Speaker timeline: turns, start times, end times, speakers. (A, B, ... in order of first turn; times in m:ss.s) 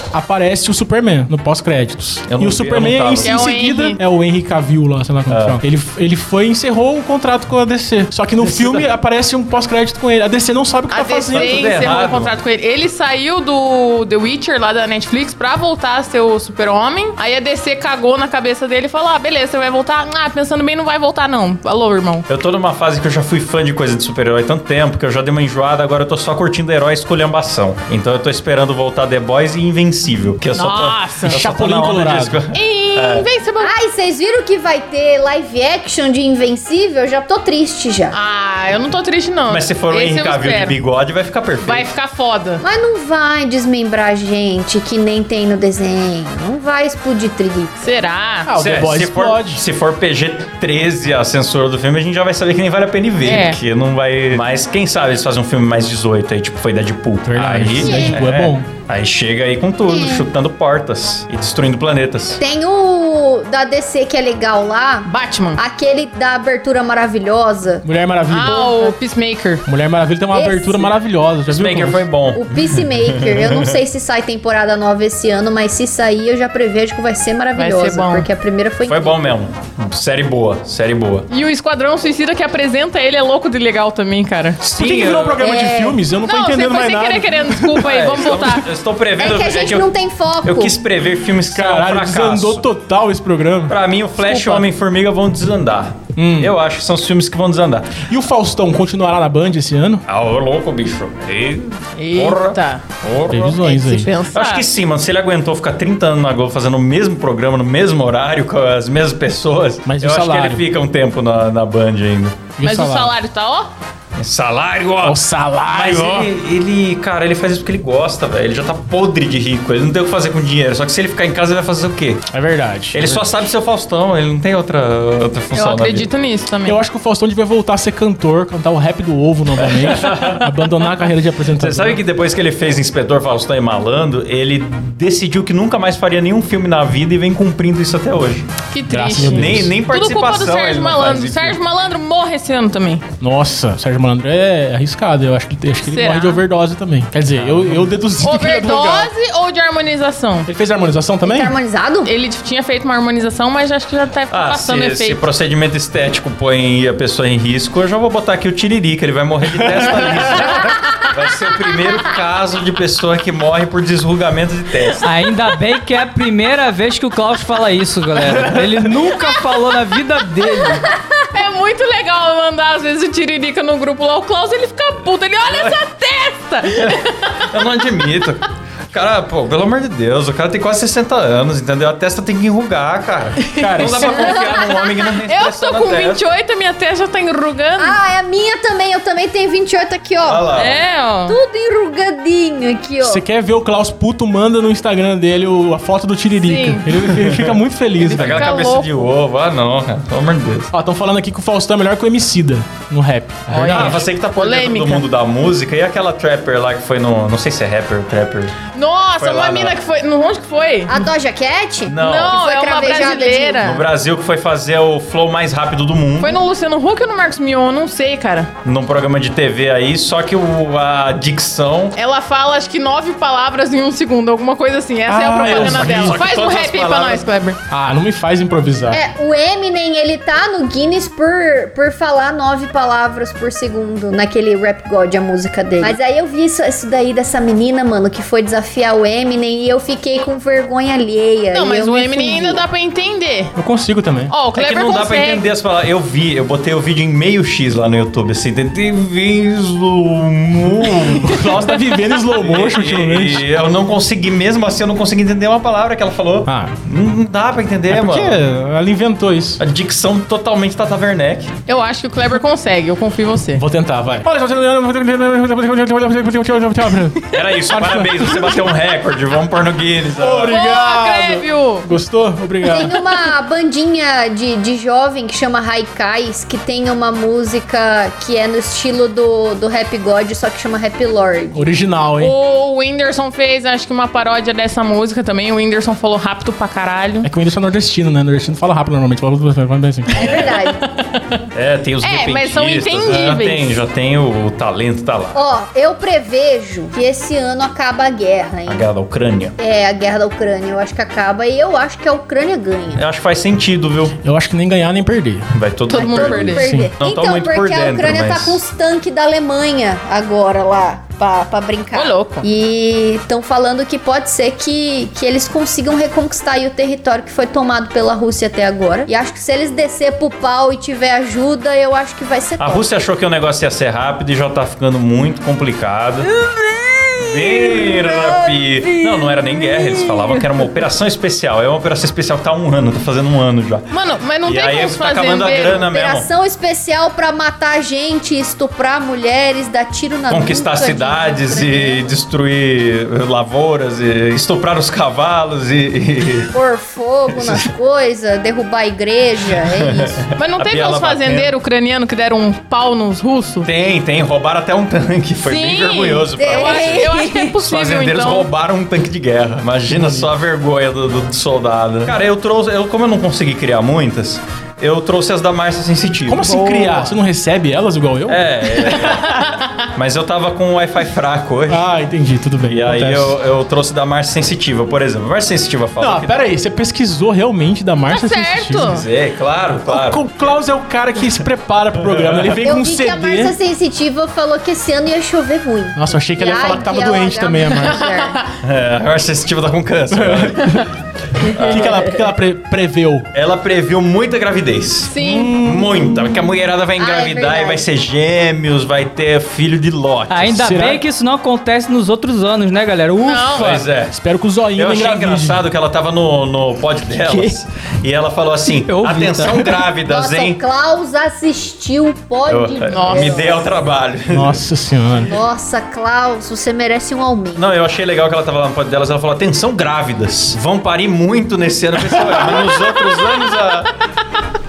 0:00.1-0:11.6 A
0:02.3-0:03.4 B
0:03.2-0:04.0 C
0:05.3-0:05.6 B
0:08.4-0:08.9 B
0:10.9-0:22.2 C
0:11.3-0:12.3 B
0:22.3-0:33.3 B
0:30.5-0:31.4 C
0:31.2-0:32.4 A
0:32.5-0:33.7 C
0:33.6-0:38.2 D
0:38.1-0:40.8 C
0:39.5-0:41.9 B
0:41.6-0:42.6 C
0:42.6-0:47.8 D
0:47.8-0:48.5 C
0:48.4-0:49.6 A
0:48.6-1:02.4 B
0:53.2-0:53.6 C
0:57.2-0:58.7 A
0:57.8-0:58.2 D
0:59.9-1:00.3 D
1:02.4-1:07.9 D
1:05.0-1:05.6 C
1:07.8-1:08.7 A
1:08.3-1:09.6 C
1:08.4-1:08.9 D
1:09.6-1:12.0 A
1:10.3-1:10.9 D
1:11.5-1:13.8 B
1:12.3-1:19.3 D
1:17.6-1:18.3 C
1:18.8-1:21.3 B
1:21.3-1:24.6 C
1:24.6-1:27.8 A
1:24.7-1:25.4 B
1:25.4-1:26.0 D
1:26.2-1:28.7 C
1:27.8-1:29.9 B
1:29.2-1:30.7 D
1:30.4-1:32.6 B
1:31.5-1:33.8 A
1:33.7-1:38.0 B
1:34.2-1:34.6 C
1:36.2-1:36.5 A
1:38.1-1:40.0 A
1:40.1-1:43.8 B
1:42.0-1:42.8 C
1:43.3-1:44.1 A
1:43.6-1:44.6 C
1:44.3-1:52.5 B
1:49.8-1:50.6 A
1:52.6-1:53.1 A
1:52.6-1:53.7 C
1:54.2-2:02.2 B
1:55.0-1:56.3 A
2:02.3-2:03.3 A
2:02.9-2:06.1 B
2:05.5-2:06.8 C
2:06.6-2:12.0 A
2:09.7-2:10.5 B
2:11.6-2:18.5 B
2:18.7-2:23.0 C
2:18.9-2:19.8 A
2:19.2-2:21.6 B
2:23.2-2:29.1 A
2:25.8-2:26.4 C
2:27.3-2:27.9 B
2:28.2-2:30.5 C
2:30.5-2:31.5 A
2:31.2-2:32.1 D
2:32.0-2:35.2 C
2:34.3-2:45.0 B
2:40.5-2:40.7 C
2:45.0-2:50.9 E
2:51.3-2:57.4 C
2:55.5-2:55.8 B
2:56.8-3:06.2 B
3:03.6-3:04.3 A
3:03.6-3:08.0 C
3:07.8-3:10.5 D
3:10.2-3:10.8 B
3:10.5-3:11.4 C
3:11.3-3:13.2 D
3:13.0-3:18.6 A
3:16.4-3:17.0 C
3:17.1-3:20.7 B
3:18.0-3:18.9 C
3:20.7-3:24.0 A
3:23.5-3:28.5 B
3:23.5-3:25.0 C
3:28.7-3:31.0 C
3:29.2-3:29.8 B
3:30.9-3:33.6 D
3:31.9-3:32.4 B
3:32.0-3:33.8 C
3:33.6-3:36.4 B
3:36.2-3:38.5 C
3:38.6-3:42.0 B
3:41.9-3:47.6 C
3:45.1-3:46.2 A
3:45.4-3:47.2 B
3:47.7-3:49.0 A
3:48.9-4:02.6 D
4:01.5-4:03.5 C
4:03.6-4:04.3 A
4:04.3-4:05.5 C
4:04.5-4:18.4 B
4:11.1-4:13.4 A
4:16.4-4:16.8 A
4:17.9-4:19.6 A
4:19.6-4:21.5 B
4:21.7-4:23.6 C
4:23.6-4:28.6 A
4:27.3-4:30.6 B
4:30.2-4:33.0 A
4:30.5-4:31.9 C
4:32.7-4:41.6 D
4:41.5-4:42.3 A
4:42.2-4:47.3 C
4:47.2-4:50.1 A
4:50.1-4:50.8 D
4:50.2-4:50.5 B
4:50.8-4:51.4 C
4:51.5-4:55.4 B
4:52.0-4:53.8 C
4:55.3-4:58.8 D
4:58.6-4:59.6 B
4:59.6-5:03.0 D
5:02.9-5:04.2 B
5:04.2-5:05.5 A
5:05.5-5:08.6 B
5:05.9-5:06.7 C
5:05.9-5:22.8 D
5:06.6-5:06.9 A
5:11.9-5:12.4 C
5:22.6-5:26.3 B
5:26.2-5:30.6 D
5:27.2-5:33.9 B
5:33.9-5:35.8 C
5:34.4-5:36.3 B
5:35.9-5:42.0 D
5:40.3-5:46.5 B
5:46.5-5:50.2 D
5:47.3-5:47.7 B
5:49.6-5:51.5 B
5:50.4-5:53.7 C
5:53.6-6:07.0 B
5:55.4-5:58.5 C
5:56.4-5:57.6 D
5:59.9-6:00.3 A
6:06.3-6:09.0 A
6:08.3-6:09.3 B
6:08.9-6:09.9 C
6:09.9-6:11.9 B
6:11.7-6:13.4 A
6:12.6-6:16.4 B
6:16.0-6:19.0 A
6:18.1-6:19.0 C
6:18.8-6:20.3 B
6:19.9-6:23.5 A
6:22.0-6:22.6 B
6:22.6-6:28.4 D
6:26.0-6:28.0 A
6:27.8-6:28.6 C
6:28.6-6:30.9 B
6:30.1-6:30.9 A
6:31.5-6:32.0 D
6:31.5-6:32.0 B
6:31.6-6:33.3 A
6:33.3-6:40.9 B
6:35.1-6:35.6 C
6:35.2-6:35.9 A
6:37.0-6:37.8 D
6:40.3-6:43.8 E
6:40.6-6:41.0 A
6:43.2-6:43.8 C
6:43.6-6:44.1 B
6:44.0-6:45.6 A
6:44.7-6:50.6 B
6:47.1-6:47.5 E
6:48.8-6:49.8 E
6:50.0-6:53.7 D
6:52.5-6:54.6 B
6:52.9-6:53.6 C
6:54.3-6:55.4 A
6:55.2-6:57.6 D
6:57.6-7:03.9 B